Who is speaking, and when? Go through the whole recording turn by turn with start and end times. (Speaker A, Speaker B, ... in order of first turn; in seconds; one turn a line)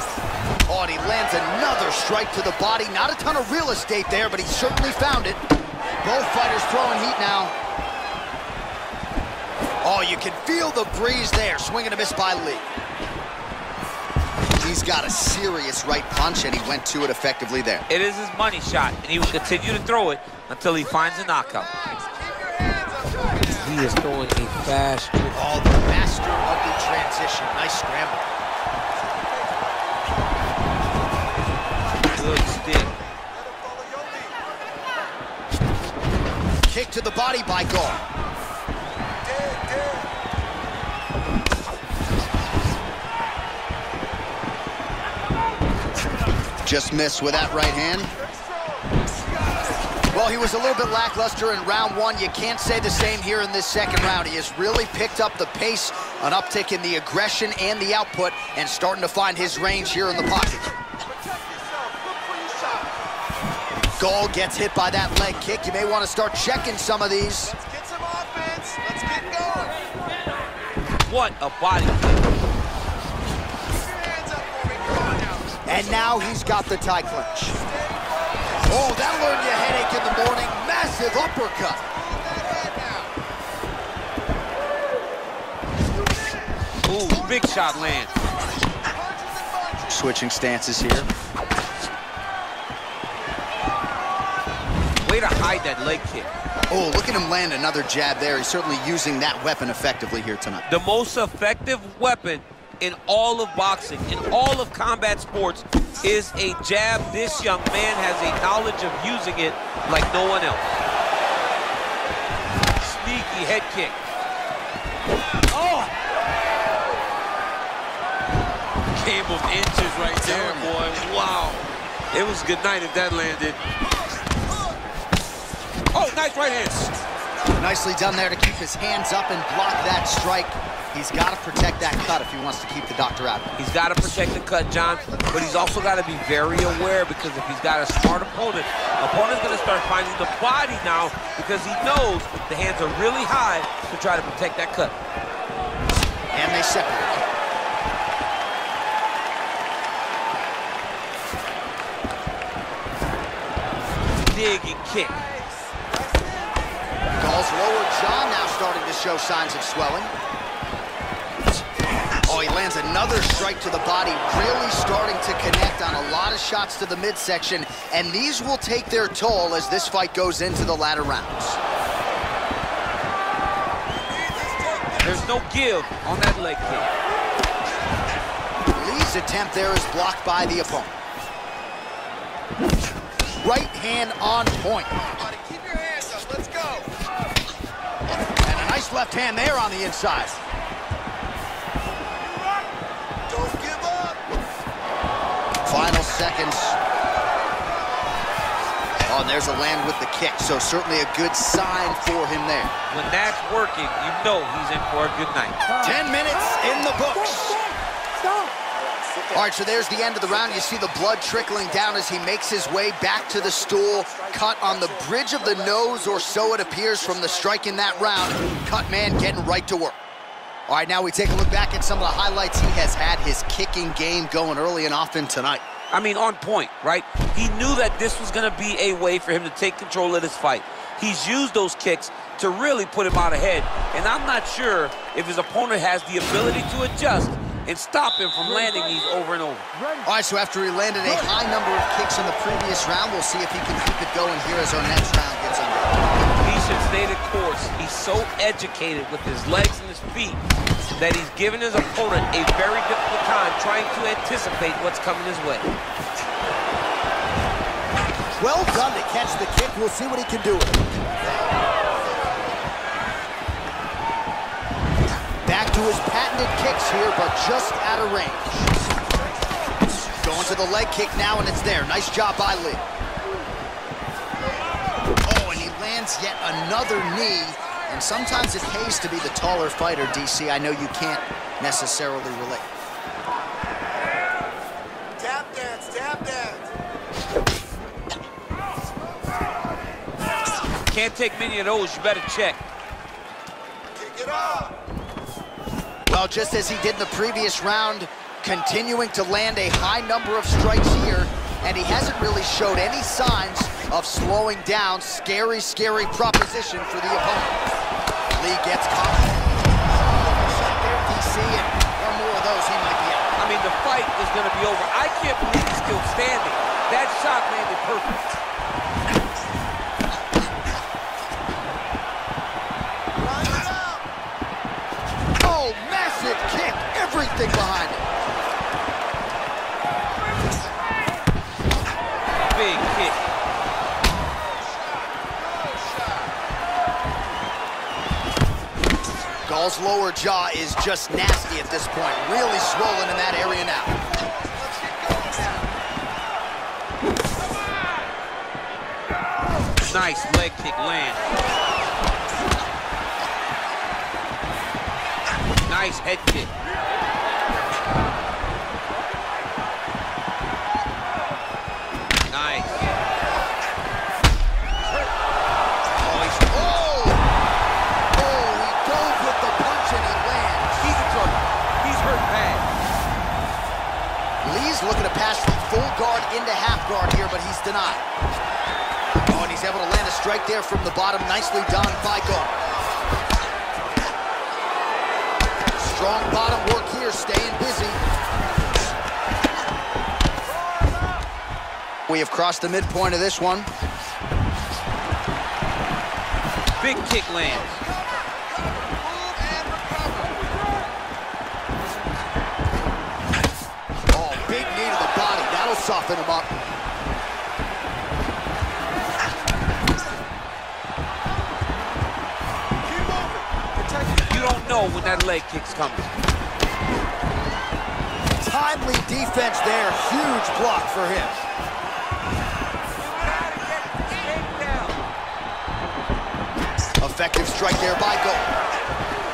Speaker A: 0.7-5.4
Speaker A: 6.0-7.5
Speaker A: 9.8-12.7
Speaker A: 14.6-17.9
Speaker B: 17.9-21.7
Speaker C: 21.4-23.8
Speaker B: 23.5-25.5
Speaker A: 25.3-28.3
Speaker C: 28.9-30.2
Speaker C: 31.5-34.9
Speaker B: 32.1-32.9
Speaker A: 36.7-38.0
Speaker C: 39.2-40.1
Speaker A: 46.6-48.1
Speaker C: 48.2-50.1
Speaker A: 50.1-60.7
Speaker C: 61.0-63.1
Speaker A: 64.0-67.5
Speaker C: 67.4-69.9
Speaker B: 71.1-72.3
Speaker C: 73.7-79.0
Speaker A: 75.7-77.6
Speaker A: 78.7-81.8
Speaker C: 81.9-83.2
Speaker B: 86.8-88.1
Speaker C: 88.8-90.0
Speaker A: 89.9-91.1
Speaker B: 95.0-96.3
Speaker A: 96.7-100.6
Speaker B: 100.7-110.8
Speaker B: 112.8-114.0
Speaker B: 118.9-123.6
Speaker A: 120.0-120.8
Speaker B: 125.9-126.9
Speaker A: 127.6-133.6
Speaker B: 133.6-144.9
Speaker C: 134.8-136.0
Speaker A: 146.3-147.2
Speaker B: 154.2-155.2
Speaker C: 155.1-156.7
Speaker A: 157.2-160.1
Speaker A: 162.2-171.6
Speaker C: 174.0-175.3
Speaker B: 175.0-176.9
Speaker A: 178.7-181.0
Speaker A: 183.4-184.9
Speaker C: 185.0-186.9
Speaker A: 188.4-190.4
Speaker C: 193.3-194.2
Speaker A: 195.7-196.8
Speaker C: 198.7-199.0
Speaker A: 199.1-202.7
Speaker B: 202.9-205.6
Speaker A: 205.8-207.7
Speaker C: 208.2-218.2
Speaker A: 209.3-220.0
Speaker A: 220.7-225.6
Speaker B: 225.9-239.7
Speaker A: 240.1-246.1
Speaker B: 246.4-250.4
Speaker B: 251.0-255.7
Speaker A: 258.4-260.8
Speaker A: 265.4-268.7
Speaker C: 269.1-269.9
Speaker A: 270.2-272.8
Speaker A: 275.2-282.7
Speaker C: 285.2-286.7
Speaker B: 290.9-292.6
Speaker C: 293.9-294.8
Speaker A: 296.1-307.6
Speaker A: 308.4-309.5
Speaker A: 310.1-313.4
Speaker B: 313.4-318.2
Speaker C: 323.2-324.1
Speaker A: 325.4-328.1
Speaker B: 332.4-333.2
Speaker C: 334.5-336.4
Speaker A: 339.5-343.9
Speaker C: 344.1-345.7
Speaker B: 349.8-351.2
Speaker B: 355.7-356.5
Speaker B: 362.3-362.9
Speaker A: 366.0-367.2
Speaker A: 368.1-370.7
Speaker B: 370.8-372.7
Speaker A: 374.4-378.1
Speaker A: 379.3-382.6
Speaker A: 385.8-388.0
Speaker C: 390.7-391.0
Speaker A: 392.1-393.7
Speaker B: 396.8-397.8
Speaker C: 397.5-400.6
Speaker A: 404.1-406.5
Speaker C: 412.8-414.9
Speaker B: 414.3-416.1
Speaker A: 418.4-421.4
Speaker C: 423.0-425.0
Speaker A: 427.0-428.5